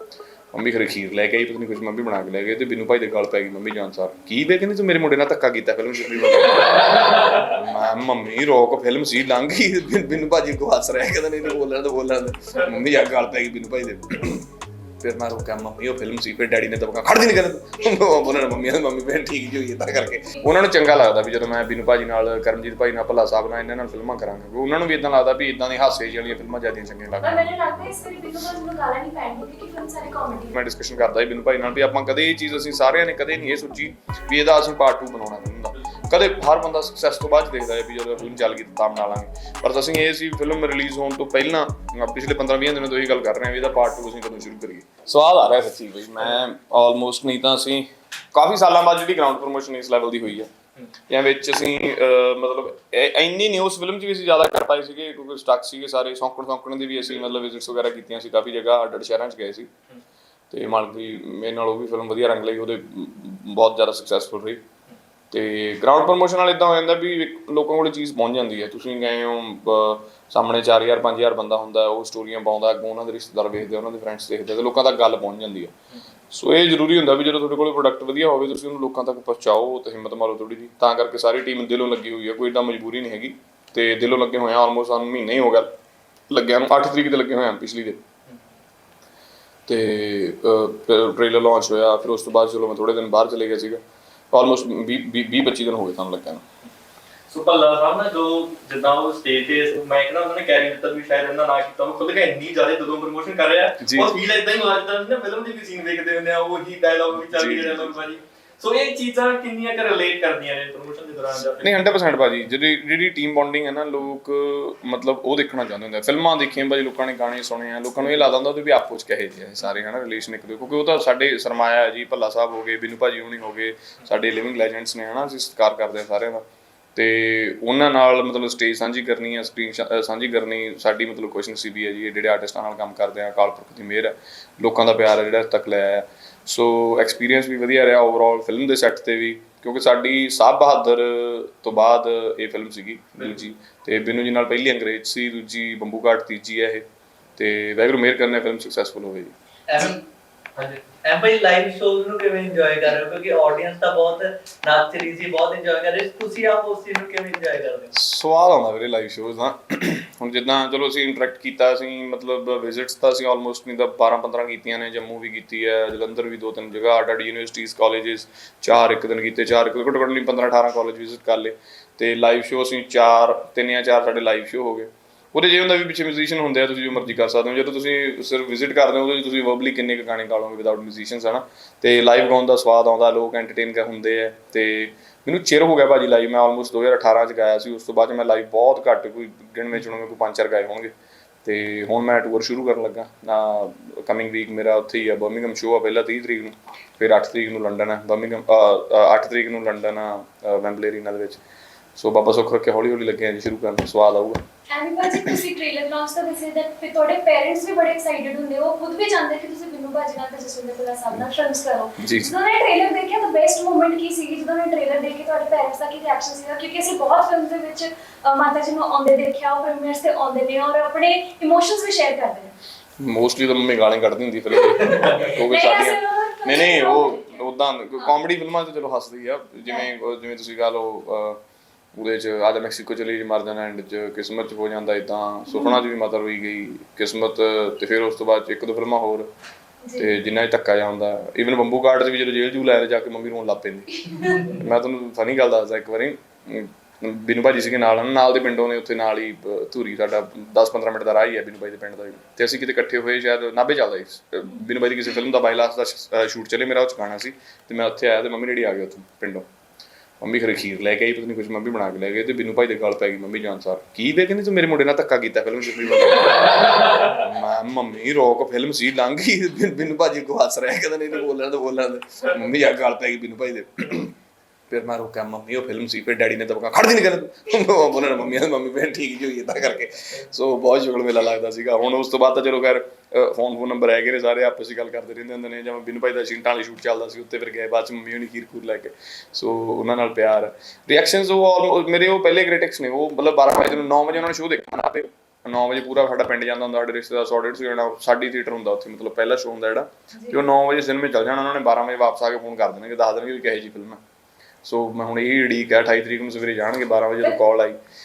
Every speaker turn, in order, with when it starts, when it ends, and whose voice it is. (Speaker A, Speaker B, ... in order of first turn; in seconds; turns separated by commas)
Speaker A: 0.5-14.5, Speaker A: 15.0-27.4, Speaker B: 27.2-30.6, Speaker A: 30.5-50.5, Speaker A: 51.1-59.7, Speaker A: 60.5-64.6, Speaker A: 65.3-75.7, Speaker A: 76.3-85.7, Speaker A: 86.3-88.0, Speaker A: 89.7-93.8, Speaker A: 94.3-96.4, Speaker C: 97.3-111.8, Speaker A: 103.8-104.1, Speaker A: 107.2-108.0, Speaker A: 111.6-126.4, Speaker A: 126.9-146.8, Speaker A: 147.4-149.3, Speaker D: 149.7-150.0, Speaker C: 150.6-150.8, Speaker D: 151.0-157.9, Speaker A: 157.9-190.9, Speaker A: 191.4-201.4, Speaker A: 201.9-204.4, Speaker B: 204.7-222.5, Speaker A: 205.1-205.3, Speaker A: 212.0-212.3, Speaker A: 223.0-231.4, Speaker C: 224.8-225.3, Speaker B: 225.4-227.4, Speaker A: 231.9-239.3, Speaker B: 235.5-235.8, Speaker A: 239.9-259.4, Speaker B: 244.1-244.5, Speaker A: 260.2-274.1, Speaker A: 274.7-304.0, Speaker B: 300.1-300.4, Speaker A: 304.6-307.8